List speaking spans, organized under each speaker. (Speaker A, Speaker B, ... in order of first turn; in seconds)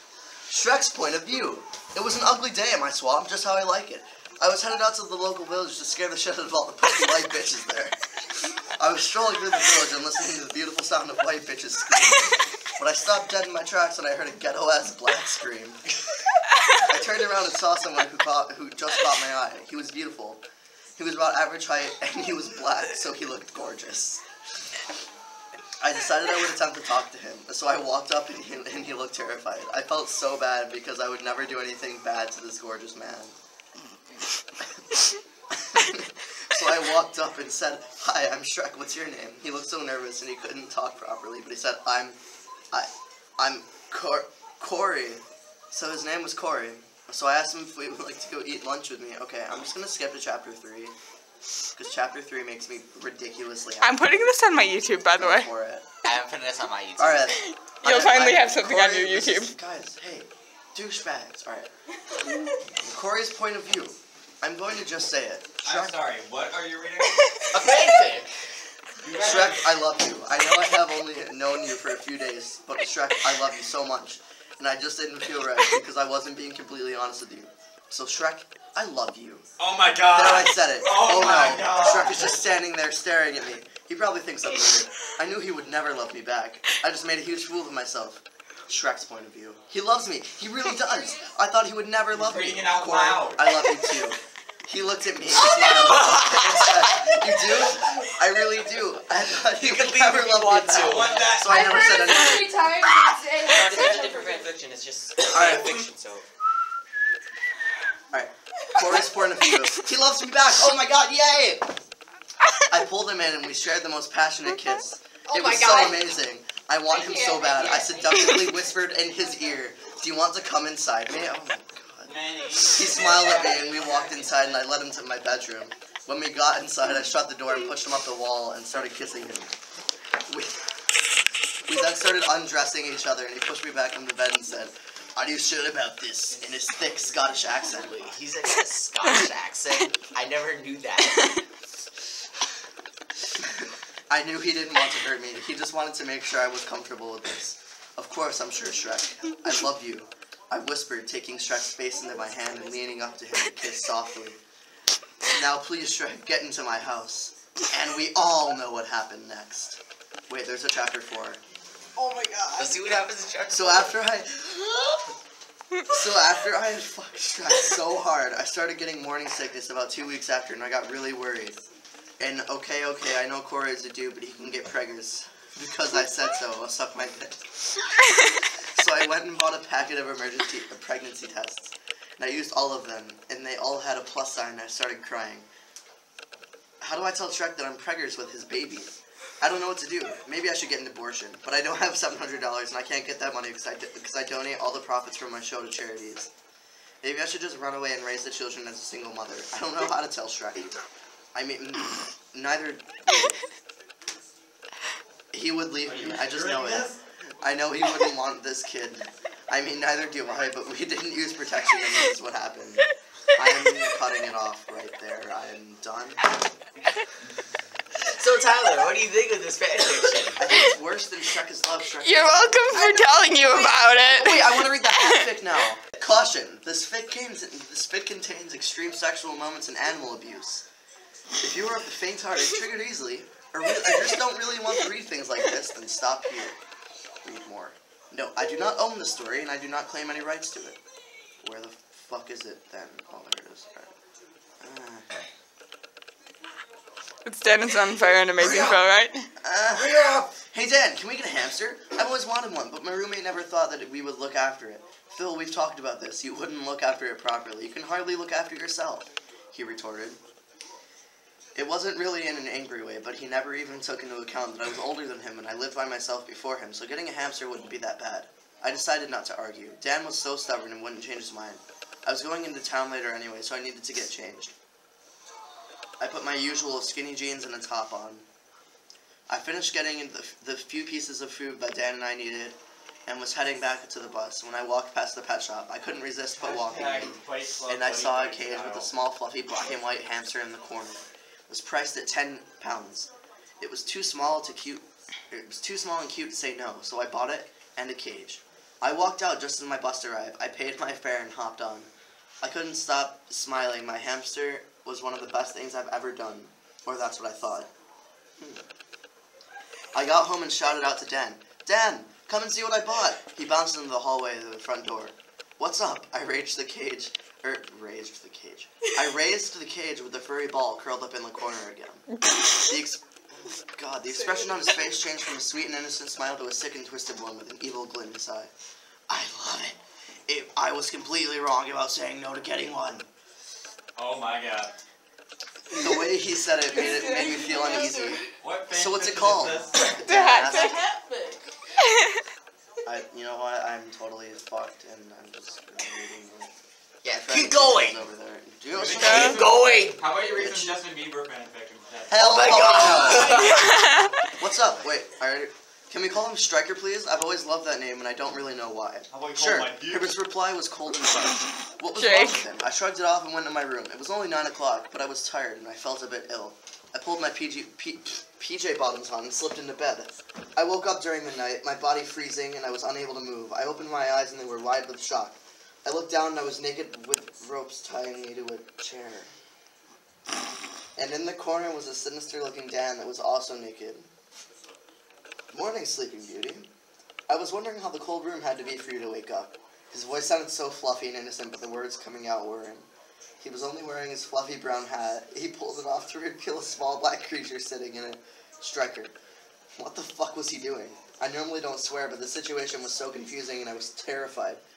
Speaker A: 0.5-8.0, 8.8-15.8, 16.7-20.4, 21.0-24.2, 25.8-33.4, 35.5-42.2, 42.7-50.9, 51.7-54.0, 55.2-55.8, 57.0-61.7, 62.8-66.0, 69.1-79.4, 80.1-102.7, 105.3-105.8, 108.1-111.7, 112.7-129.5, 131.7-138.1, 144.1-154.4, 155.2-161.4, 163.5-164.8, 165.9-171.6, 172.2-177.4, 178.7-185.4, 186.8-196.3, 197.0-200.7, 201.3-203.3, 205.3-216.2, 220.3-223.0, 224.0-230.7, 231.4-236.6, 237.2-240.8, 241.4-243.9, 244.6-245.1, 249.4-260.2, 261.5-274.5, 276.0-278.2, 279.3-293.1, 293.6-301.9, 302.4-307.7, 309.9-322.0, 322.6-328.5, 329.1-333.1, 335.7-340.8, 342.9-346.5, 347.1-349.4, 350.3-350.8, 352.1-353.5, 354.4-379.3, 380.9-384.1, 385.5-386.7, 387.3-392.9, 393.4-399.1, 399.8-404.6
Speaker B: 53.8-55.5, 57.3-59.5, 222.0-225.3, 247.2-249.3, 340.0-340.7, 341.9-342.1, 349.1-349.3, 353.4-354.2, 361.9-362.4
Speaker C: 56.0-57.3, 67.5-68.3, 95.9-96.3, 99.5-101.2, 103.5-104.1, 105.2-105.8, 137.4-141.4, 162.5-164.0, 218.0-220.4, 248.4-248.8, 249.7-250.3, 347.0-348.0, 349.1-350.0, 352.1-353.7
Speaker D: 65.6-67.3, 69.0-69.6, 79.6-82.3, 92.1-93.5, 100.7-102.4, 103.5-106.2, 122.0-124.1, 136.4-138.1, 205.9-206.9, 286.4-288.9, 334.0-334.7, 338.4-340.0, 348.7-353.4, 359.1-360.1
Speaker E: 101.5-104.6, 115.3-115.9, 116.9-118.3, 336.7-338.2, 340.5-341.4